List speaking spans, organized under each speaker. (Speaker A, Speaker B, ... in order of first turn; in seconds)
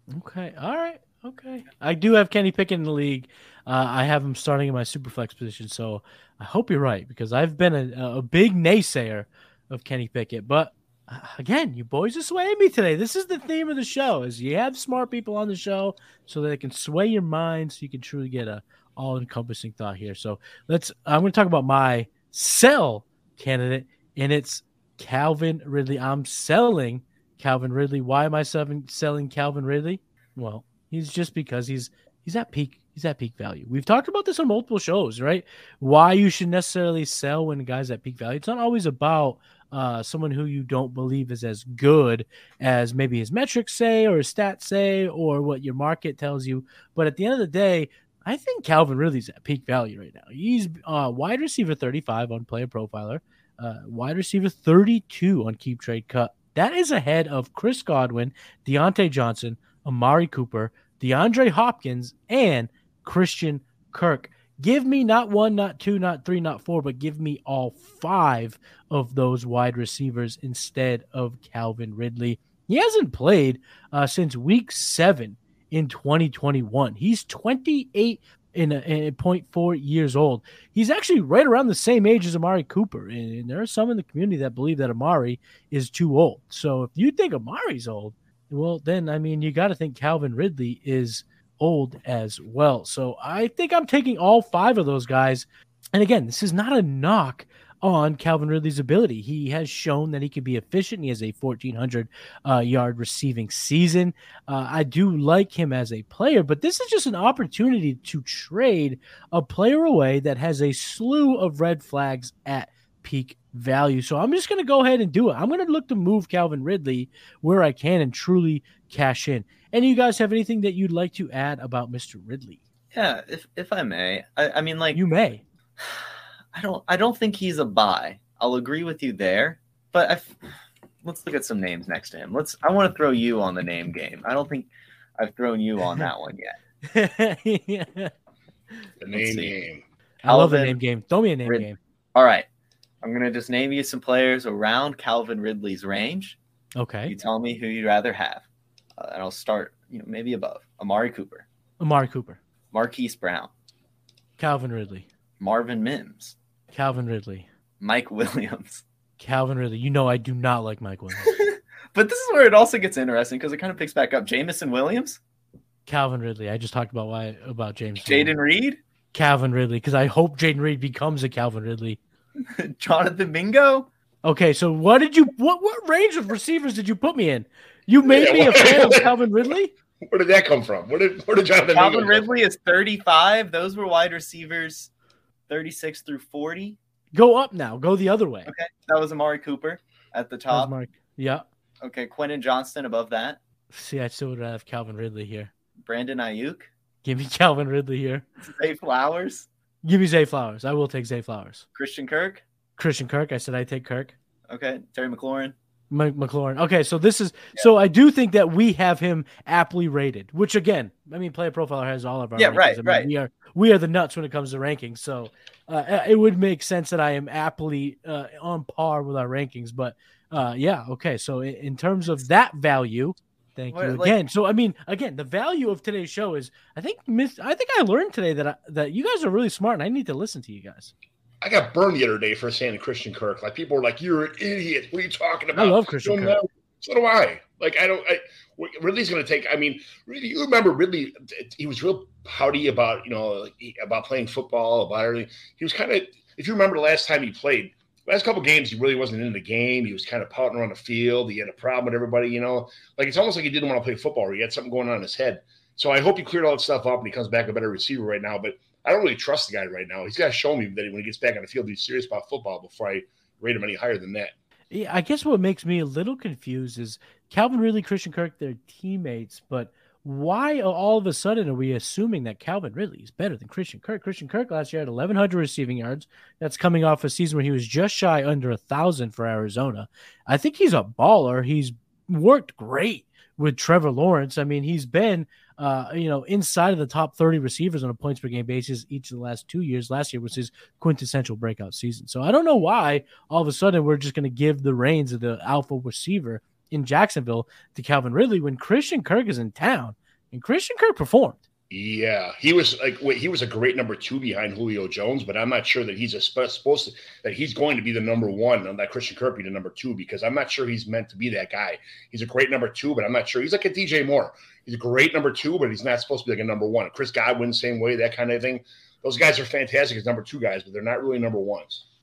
Speaker A: 0.1-122.6, 124.9-125.4, 136.8-138.1, 140.2-141.8, 146.8-147.1, 151.8-152.4, 154.4-155.1, 156.7-157.5, 159.2-161.4, 165.9-168.4, 169.1-172.0, 174.2-179.7, 187.1-188.5, 190.5-191.4, 193.7-195.5, 197.0-198.3, 199.8-201.6, 202.8-204.1, 205.9-230.9, 235.6-236.4, 264.7-301.4
Speaker B: 122.9-125.0, 125.8-130.4, 131.0-136.6, 139.1-139.5, 140.3-140.8, 141.4-142.5, 143.0-146.4, 147.1-148.4, 149.0-151.4, 152.7-153.5, 155.4-156.3, 157.8-158.8, 161.2-165.2, 168.0-168.8, 172.4-173.9, 181.7-184.9, 185.5-186.8, 188.4-190.7, 191.8-193.4, 195.8-196.7, 198.4-199.5, 201.7-202.4, 204.5-205.6, 212.4-213.1, 223.7-224.2
Speaker C: 139.0-139.8, 178.1-179.1, 180.1-182.3, 231.4-264.3, 301.7-321.8